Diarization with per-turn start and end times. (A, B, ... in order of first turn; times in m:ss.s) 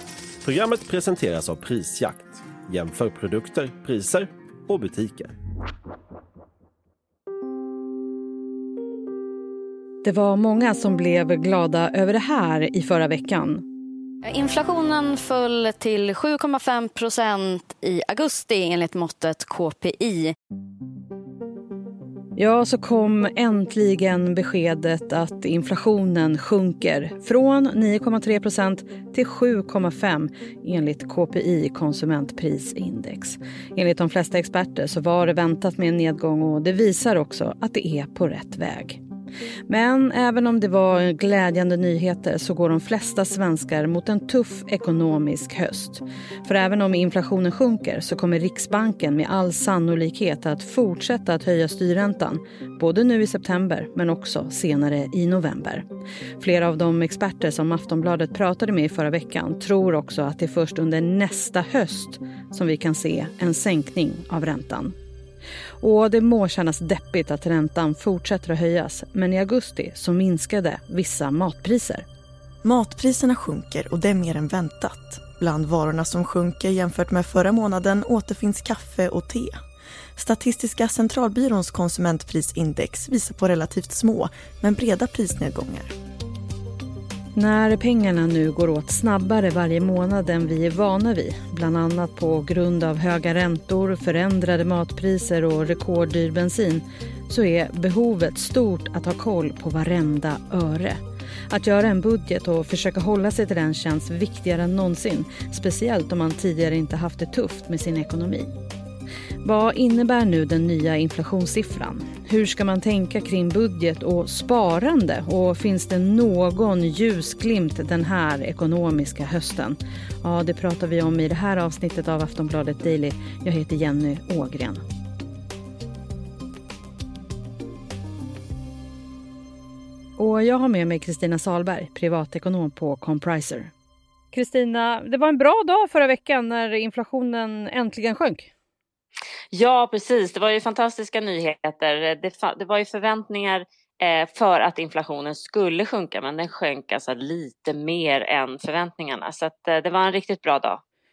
0:00.4-0:05.3 A
0:10.0-0:13.6 B
0:14.2-0:20.3 C
0:22.4-0:39.0 B
0:39.7-0:55.8 B
0:56.4-1:04.9 B
1:05.8-1:12.0 B
1:12.6-1:19.6 D
1:20.2-1:25.9 D
1:27.3-1:41.0 B
1:41.5-1:48.5 B
1:49.4-2:04.8 B
2:10.2-2:13.7 B
2:14.3-2:18.5 B
2:19.5-2:30.8 E